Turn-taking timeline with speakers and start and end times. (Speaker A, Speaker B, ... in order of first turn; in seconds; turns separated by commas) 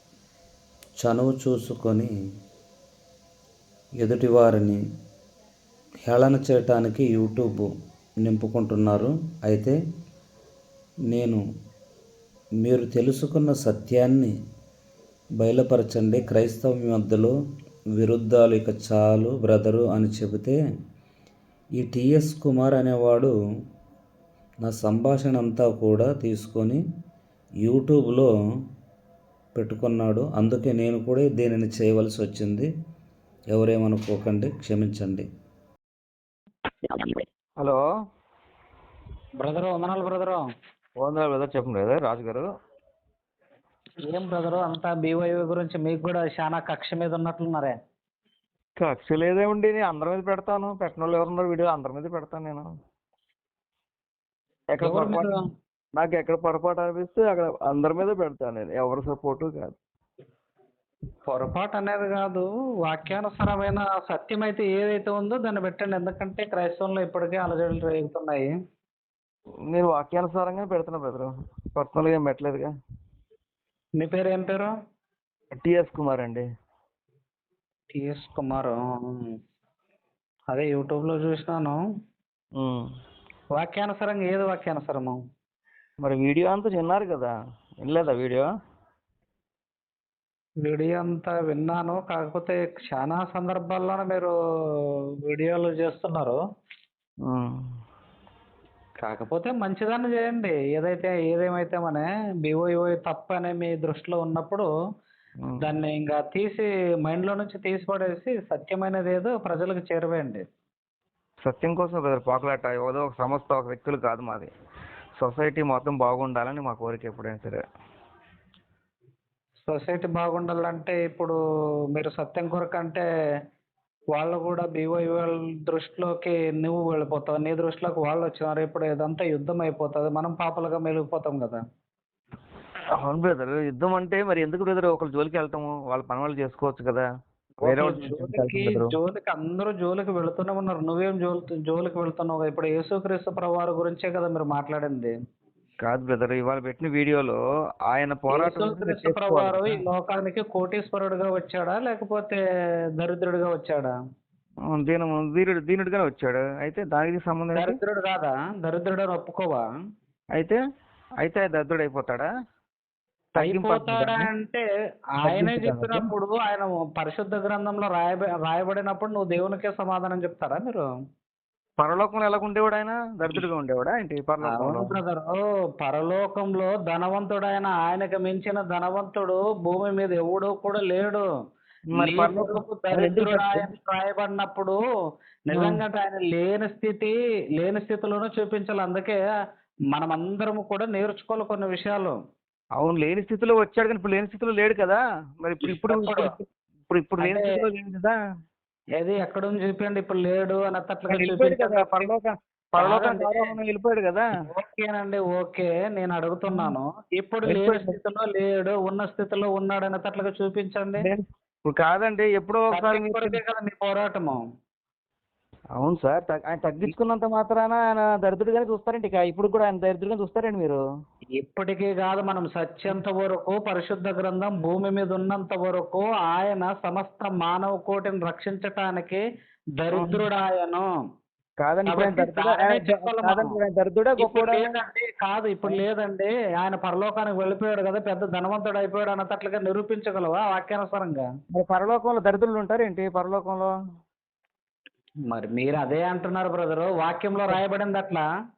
Speaker A: 1.0-2.1, Speaker A: 4.0-4.8, Speaker A: 6.1-7.7, Speaker A: 8.2-9.8, Speaker A: 11.1-11.4, Speaker A: 12.6-14.3, Speaker A: 15.4-17.3, Speaker A: 18.0-20.6, Speaker A: 21.8-23.3, Speaker A: 24.6-26.8, Speaker A: 27.6-28.3, Speaker A: 29.6-32.7, Speaker A: 33.5-35.3, Speaker B: 39.4-40.5, Speaker C: 41.0-42.5, Speaker B: 44.1-47.8, Speaker C: 48.8-52.7, Speaker C: 54.7-55.3, Speaker B: 54.8-55.4, Speaker C: 56.0-59.8, Speaker B: 61.3-68.5, Speaker C: 69.7-72.7, Speaker B: 74.0-74.7, Speaker C: 75.6-76.5, Speaker B: 77.9-79.3, Speaker B: 80.5-81.8, Speaker C: 82.6-82.9, Speaker B: 83.5-85.2, Speaker C: 86.0-88.5, Speaker B: 90.7-96.4, Speaker C: 97.3-97.6, Speaker B: 99.0-104.7, Speaker B: 105.6-110.4, Speaker C: 111.4-114.5, Speaker C: 115.2-117.6, Speaker B: 119.7-121.4, Speaker B: 122.0-123.0, Speaker B: 124.2-131.6, Speaker C: 133.0-137.1, Speaker C: 137.6-138.9, Speaker B: 137.7-145.1, Speaker C: 145.8-149.8, Speaker B: 148.3-152.4, Speaker B: 153.0-153.9, Speaker C: 154.7-157.8, Speaker B: 157.6-159.7, Speaker C: 161.2-162.3, Speaker B: 163.4-164.7, Speaker C: 163.4-164.3, Speaker B: 165.2-170.9, Speaker C: 165.2-166.1, Speaker C: 171.8-175.0, Speaker B: 174.4-181.3, Speaker C: 181.9-183.7, Speaker B: 182.0-184.8, Speaker B: 185.5-189.2, Speaker C: 185.5-185.8, Speaker B: 189.9-192.2, Speaker C: 192.8-198.2, Speaker B: 195.7-196.2, Speaker B: 197.2-197.6, Speaker B: 199.0-202.1, Speaker C: 201.1-204.2, Speaker B: 202.8-203.5, Speaker B: 204.5-211.1, Speaker C: 206.5-206.8, Speaker C: 207.4-208.0, Speaker C: 211.0-213.4, Speaker B: 212.7-214.4, Speaker C: 215.8-220.8, Speaker B: 221.4-229.2, Speaker B: 229.8-230.9, Speaker C: 229.9-230.3, Speaker C: 231.6-234.7, Speaker B: 231.9-233.5, Speaker B: 234.2-241.3, Speaker C: 241.5-243.7, Speaker B: 245.3-248.2